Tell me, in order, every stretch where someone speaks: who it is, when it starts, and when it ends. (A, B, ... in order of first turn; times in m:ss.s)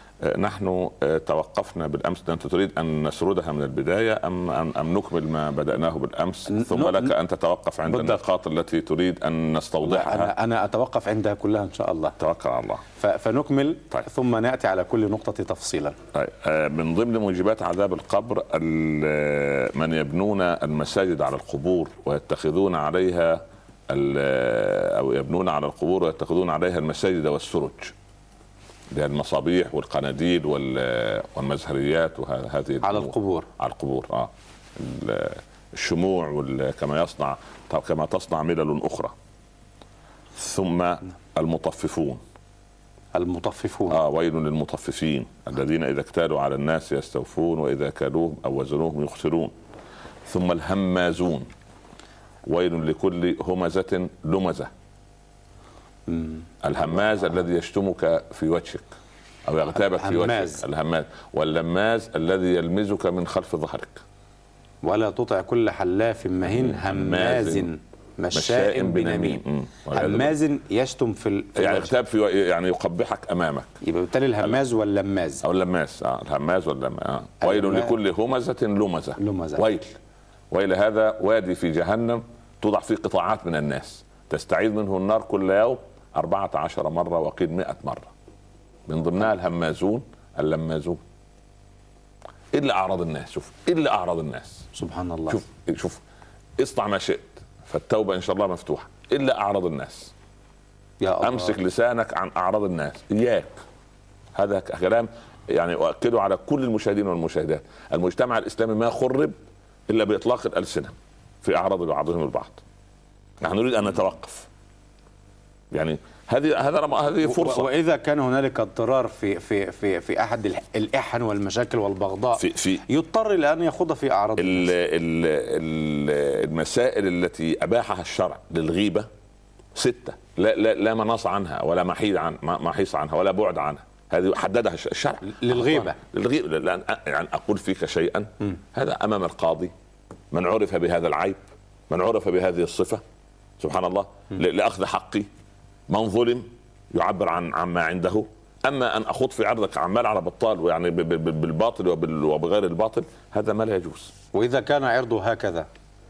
0:00.2-0:10.3 A
0:06.5-0:07.1 B
0:07.9-0:08.2 B
0:09.8-0:12.2 B
0:12.2-0:12.8 A
0:13.0-0:16.0 B
0:16.1-0:27.9 A
0:28.9-0:39.1 A
0:32.8-0:33.5 B
0:40.4-0:42.2 A
0:43.1-0:44.0 B
0:43.9-0:49.5 A
0:50.2-0:51.5 A
0:52.4-0:54.7 A
0:56.1-0:56.5 B
0:56.6-0:58.9 A
0:59.4-1:04.0 A
0:59.8-1:00.6 B
1:04.8-1:11.9 B
1:06.4-1:07.7 A
1:08.3-1:10.3 A
1:11.6-1:13.7 A
1:13.8-1:15.4 B
1:15.4-1:19.9 A
1:17.4-1:18.0 B
1:19.2-1:19.6 B
1:20.5-1:28.1 A
1:28.9-1:31.0 A
1:32.5-1:34.6 A
1:34.7-1:35.4 B
1:35.3-1:36.0 A
1:36.6-1:40.1 A
1:41.0-1:41.6 B
1:41.2-1:43.5 A
1:44.3-1:49.4 A
1:49.9-1:52.6 A
1:53.4-1:54.5 A
1:55.7-1:57.7 A
1:57.2-2:04.7 B
2:02.4-2:02.8 A
2:04.4-2:09.1 A
2:09.7-2:19.7 A
2:15.2-2:16.0 B
2:20.3-2:23.0 A
2:23.6-2:25.3 A
2:25.9-2:34.1 A
2:34.3-2:35.7 B